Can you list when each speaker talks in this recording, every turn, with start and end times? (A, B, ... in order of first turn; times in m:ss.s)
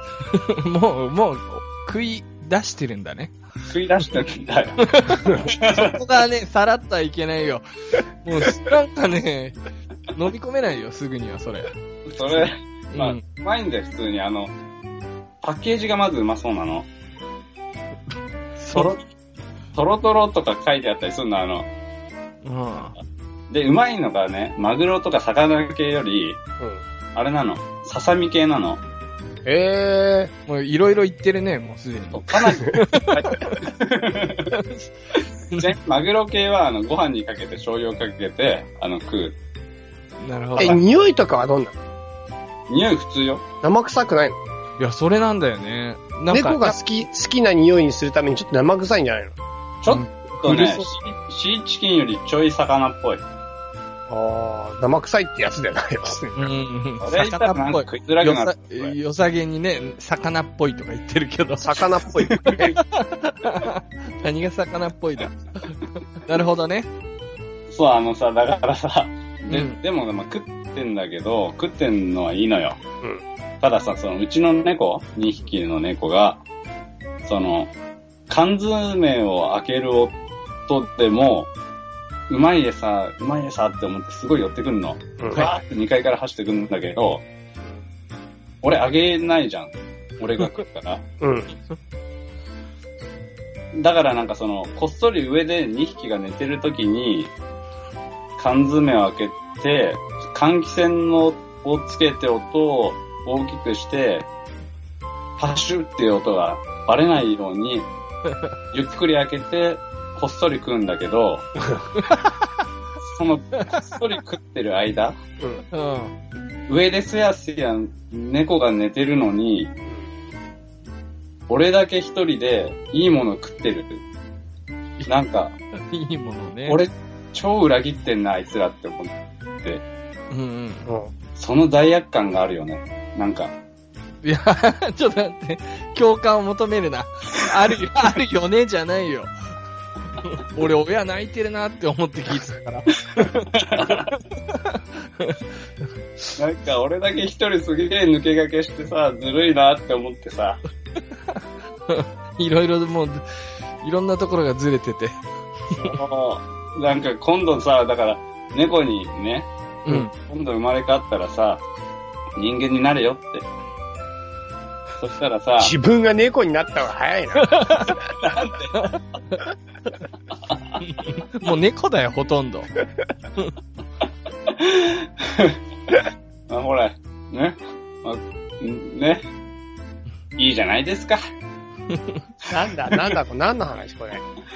0:00.3-0:03.3 A
0:03.7-0:06.0 B
0:04.8-0:07.6 A
0:08.2-0:09.6 A
0:10.1-0:11.7 A
0:12.1-0:14.5 B
0:12.9-0:13.2 A
0:15.4-0:16.9 B
0:18.6-0:18.9 A
0:18.7-0:19.0 B
0:19.7-0:21.7 B
0:22.4-0:22.9 A
0:23.5-0:26.4 B
0:27.1-0:28.8 B
0:29.4-0:30.3 C
0:30.5-0:33.5 A
0:32.1-0:34.5 B
0:34.5-0:34.9 A
0:35.5-0:39.4 B
0:40.2-0:40.8 A
0:40.6-0:41.8 C
0:42.7-0:43.4 B
0:43.6-0:44.4 C
0:44.8-0:46.8 A
0:46.3-0:49.3 C
0:49.8-0:53.2 B
0:49.9-0:50.9 A
0:54.1-0:56.5 C
0:56.4-1:01.8 A
0:57.0-0:58.9 B
1:01.6-1:02.7 C
1:02.4-1:06.9 A
1:07.7-1:12.8 B
1:09.5-1:09.8 A
1:13.6-1:16.4 B
1:17.2-1:17.7 B
1:18.3-1:20.1 B
1:20.7-1:21.5 B
1:22.3-1:27.2 B
1:25.2-1:25.5 C
1:28.6-1:31.0 B
1:31.2-1:31.5 C
1:33.7-1:37.3 B
1:38.4-1:44.3 B
1:45.4-1:47.9 B
1:48.7-1:51.5 B
1:52.0-1:52.5 A
1:53.0-1:55.2 B
1:55.7-1:56.1 A
1:56.7-1:59.7 B
2:01.5-2:04.0 B
2:05.1-2:05.5 B
2:05.8-2:06.8 A
2:06.7-2:09.8 B
2:10.3-2:10.9 A
2:10.8-2:11.1 C
2:11.4-2:13.5 B
2:14.2-2:19.3 A
2:20.2-2:25.4 A
2:23.5-2:24.0 B
2:26.4-2:30.6 B
2:31.3-2:33.2 A
2:33.8-2:35.2 A
2:35.7-2:36.0 A
2:35.8-2:41.6 B
2:39.8-2:40.1 A
2:42.4-2:43.4 B
2:45.0-2:45.7 B
2:45.6-2:47.8 C
2:47.4-2:48.0 A
2:48.2-2:48.9 B
2:48.8-2:49.4 A
2:50.8-2:52.7 A
2:54.5-2:55.6 B
2:56.5-2:59.2 B
3:00.4-3:01.2 B
3:01.9-3:02.2 A
3:02.5-3:04.2 C